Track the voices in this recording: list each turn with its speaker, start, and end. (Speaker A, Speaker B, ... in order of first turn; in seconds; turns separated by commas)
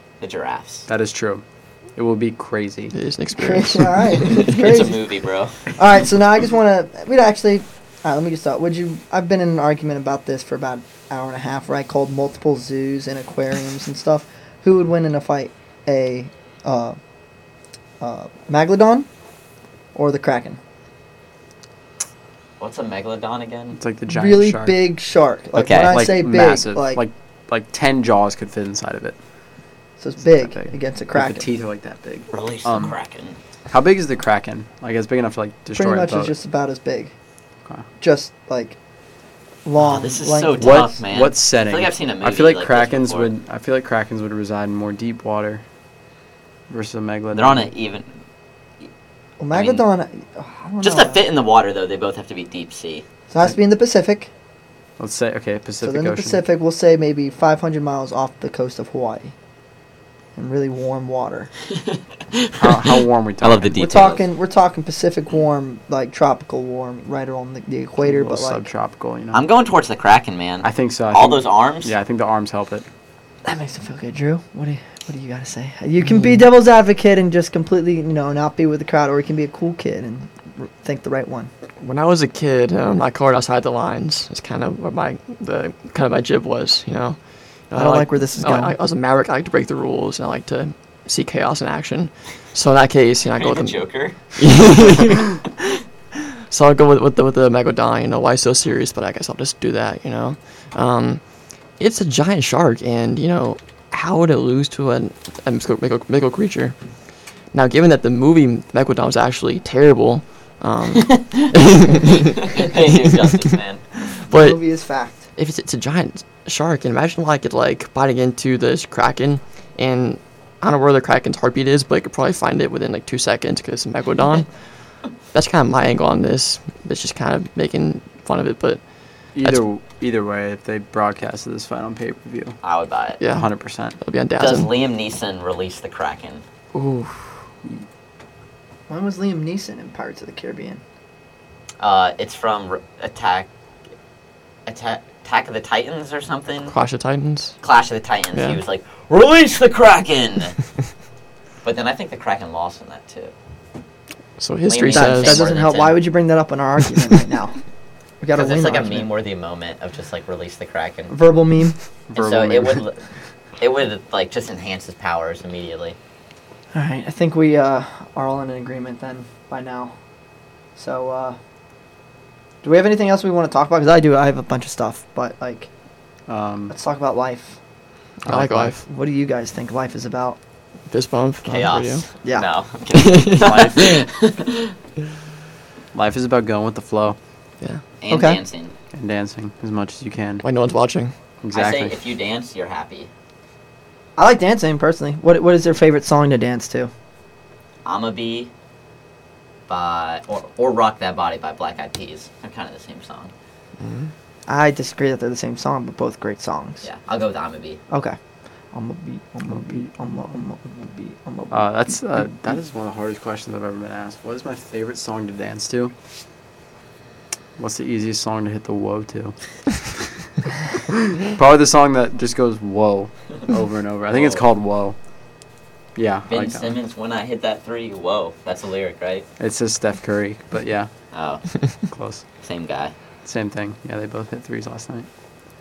Speaker A: 0.2-0.9, Speaker B: 0.9-1.4, Speaker B: 2.0-2.9, Speaker C: 2.9-4.5, Speaker D: 3.4-5.0, Speaker A: 4.2-5.6, Speaker D: 5.8-17.0, Speaker D: 18.0-19.1, Speaker D: 19.9-20.6, Speaker A: 22.6-23.8, Speaker B: 23.8-24.8, Speaker D: 24.1-27.0, Speaker A: 25.6-25.9, Speaker B: 25.8-29.2, Speaker D: 30.0-31.5, Speaker B: 30.2-33.0, Speaker A: 32.3-33.4, Speaker B: 33.7-36.4, Speaker D: 35.7-37.1, Speaker D: 38.0-38.8, Speaker D: 39.6-40.9, Speaker A: 39.8-43.3, Speaker B: 40.6-45.6, Speaker B: 46.7-47.7, Speaker A: 47.3-48.1, Speaker D: 49.4-51.2, Speaker A: 49.5-49.9, Speaker A: 50.8-53.0, Speaker D: 53.3-54.3, Speaker B: 55.0-56.4, Speaker D: 55.8-59.3, Speaker D: 60.4-61.5, Speaker A: 61.8-64.2, Speaker B: 62.6-63.7, Speaker D: 63.8-68.7, Speaker B: 68.0-69.5, Speaker A: 69.3-71.9, Speaker B: 70.6-72.9, Speaker D: 73.5-81.5, Speaker C: 81.8-87.2, Speaker C: 87.7-93.8, Speaker D: 87.8-88.8, Speaker A: 93.4-95.1, Speaker C: 94.4-95.4, Speaker C: 96.5-101.2, Speaker C: 101.8-106.8, Speaker C: 107.5-113.3, Speaker A: 111.0-111.5, Speaker A: 112.2-113.8, Speaker C: 114.2-114.6, Speaker D: 114.3-115.3, Speaker C: 115.4-124.5, Speaker C: 125.3-128.8, Speaker B: 129.3-132.6, Speaker A: 132.6-133.2, Speaker C: 133.2-134.7, Speaker B: 133.3-134.0, Speaker A: 134.4-136.4, Speaker C: 136.7-137.3, Speaker D: 138.9-140.8, Speaker A: 141.8-143.5, Speaker A: 144.7-146.7, Speaker C: 146.7-147.6, Speaker A: 147.6-150.6, Speaker C: 148.3-148.6, Speaker A: 151.6-153.3, Speaker C: 154.4-155.4, Speaker A: 154.7-156.0, Speaker D: 154.9-157.6, Speaker D: 158.2-159.1, Speaker A: 158.3-161.2, Speaker D: 161.1-161.8, Speaker B: 162.1-162.8, Speaker A: 162.2-163.0, Speaker A: 163.6-166.0, Speaker D: 166.7-170.0, Speaker D: 170.8-171.4, Speaker D: 172.6-175.7, Speaker B: 176.3-176.7, Speaker D: 176.7-177.6, Speaker C: 178.3-178.8, Speaker D: 178.3-180.4, Speaker C: 180.9-182.0, Speaker A: 181.4-184.8, Speaker C: 182.9-183.8, Speaker B: 183.4-183.8, Speaker B: 185.9-187.2, Speaker A: 188.0-188.7, Speaker D: 188.1-188.4, Speaker B: 188.9-190.4, Speaker C: 190.4-191.1, Speaker B: 191.4-192.0, Speaker A: 191.5-193.1, Speaker D: 194.2-196.9, Speaker A: 197.8-198.5, Speaker A: 199.7-203.3, Speaker C: 203.8-204.1, Speaker D: 204.5-206.9, Speaker A: 206.8-207.8, Speaker D: 207.9-208.2, Speaker D: 208.7-211.7, Speaker B: 211.5-215.9, Speaker B: 217.6-219.4, Speaker B: 220.9-225.0, Speaker A: 224.1-224.4, Speaker B: 226.0-226.7, Speaker A: 226.3-229.3, Speaker B: 229.4-230.9, Speaker A: 231.1-231.4, Speaker B: 231.9-232.2, Speaker A: 232.4-232.9, Speaker B: 233.2-235.1